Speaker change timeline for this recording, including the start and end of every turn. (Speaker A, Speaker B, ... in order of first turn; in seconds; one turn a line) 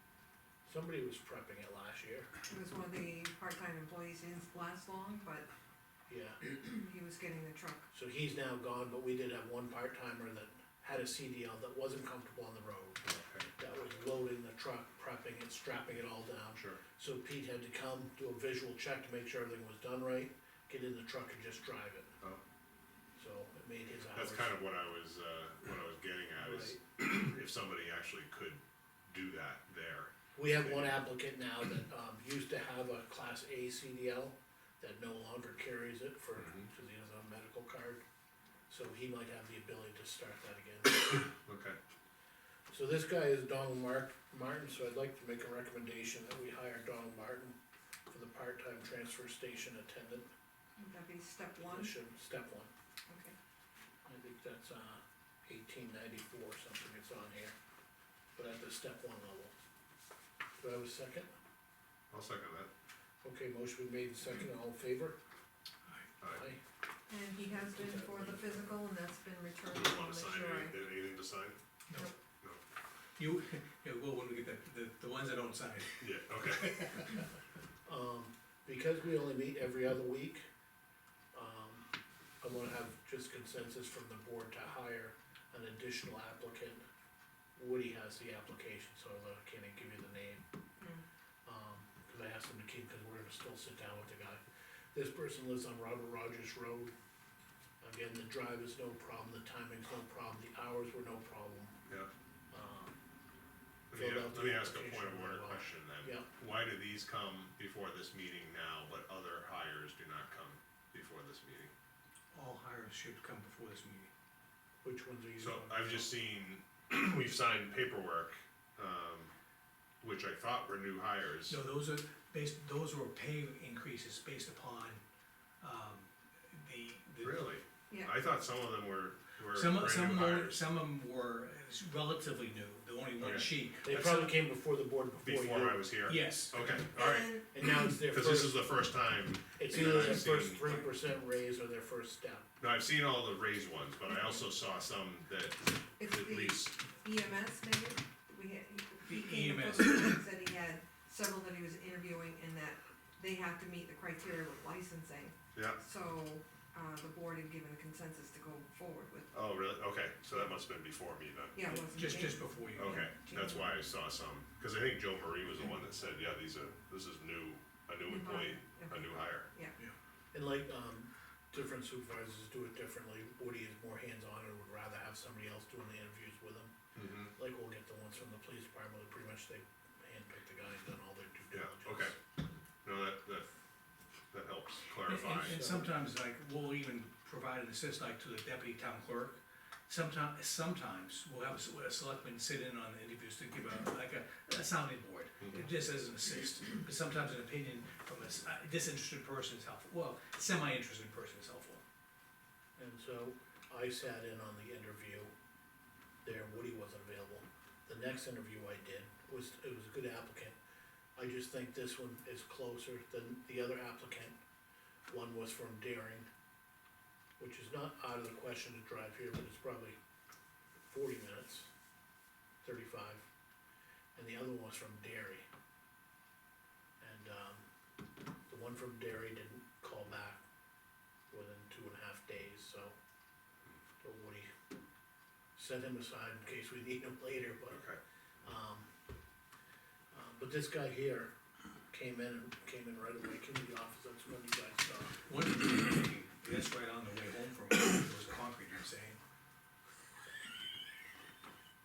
Speaker A: 0.6-2.3
Speaker B: 2.5-5.5
Speaker A: 6.1-6.4
Speaker B: 6.4-7.9
Speaker A: 7.9-22.1
Speaker C: 13.0-13.4
Speaker C: 16.5-16.8
Speaker A: 23.1-24.5
Speaker C: 24.1-30.9
Speaker A: 26.4-26.8
Speaker A: 30.3-38.0
Speaker C: 36.4-36.6
Speaker A: 38.7-41.2
Speaker C: 41.1-41.8
Speaker A: 42.7-47.6
Speaker A: 48.1-50.3
Speaker B: 50.8-51.9
Speaker A: 51.6-52.7
Speaker B: 53.1-53.3
Speaker A: 54.0-57.5
Speaker A: 58.4-59.5
Speaker A: 60.6-61.3
Speaker C: 62.1-62.7
Speaker A: 63.2-65.2
Speaker C: 66.2-66.5
Speaker A: 66.3-66.6
Speaker B: 67.1-70.8
Speaker A: 67.4-68.8
Speaker C: 69.7-71.6
Speaker D: 73.2-76.1
Speaker C: 76.0-77.0
Speaker A: 77.8-80.5
Speaker A: 81.3-81.8
Speaker A: 82.4-86.8
Speaker A: 87.5-90.4
Speaker A: 91.4-94.4
Speaker A: 94.9-96.9
Speaker A: 97.8-101.8
Speaker A: 102.5-103.0
Speaker C: 103.9-111.7
Speaker A: 103.9-106.3
Speaker D: 112.3-114.1
Speaker A: 114.8-116.1
Speaker C: 115.4-119.3
Speaker C: 120.0-121.6
Speaker D: 121.5-125.0
Speaker D: 125.6-127.5
Speaker C: 127.2-130.6
Speaker B: 127.9-128.1
Speaker D: 129.5-134.3
Speaker C: 133.2-134.3
Speaker A: 133.8-135.9
Speaker C: 135.2-140.8
Speaker D: 136.1-136.7
Speaker B: 136.9-137.4
Speaker A: 137.5-138.6
Speaker A: 139.6-142.5
Speaker C: 142.6-146.8
Speaker B: 146.0-159.3
Speaker D: 149.1-150.2
Speaker C: 155.5-155.8
Speaker C: 159.3-161.6
Speaker B: 161.5-163.8
Speaker D: 161.7-163.1
Speaker C: 162.8-169.5
Speaker B: 168.0-169.8
Speaker A: 170.3-176.7
Speaker C: 176.9-177.3
Speaker A: 177.3-182.1
Speaker C: 181.5-182.2
Speaker C: 182.8-183.5
Speaker C: 184.3-185.6
Speaker D: 185.1-201.8
Speaker A: 185.4-185.9
Speaker A: 202.8-205.3
Speaker A: 206.2-210.6
Speaker A: 211.2-214.3
Speaker A: 215.1-216.3
Speaker A: 217.4-220.0
Speaker A: 220.9-221.7
Speaker A: 222.6-223.2
Speaker A: 224.1-225.4
Speaker A: 227.0-227.6
Speaker A: 228.5-230.4
Speaker A: 231.3-232.9
Speaker A: 234.0-234.5
Speaker A: 235.6-237.8
Speaker C: 237.7-238.0
Speaker A: 238.4-238.9
Speaker A: 240.1-241.3
Speaker A: 241.9-245.2
Speaker D: 245.2-249.2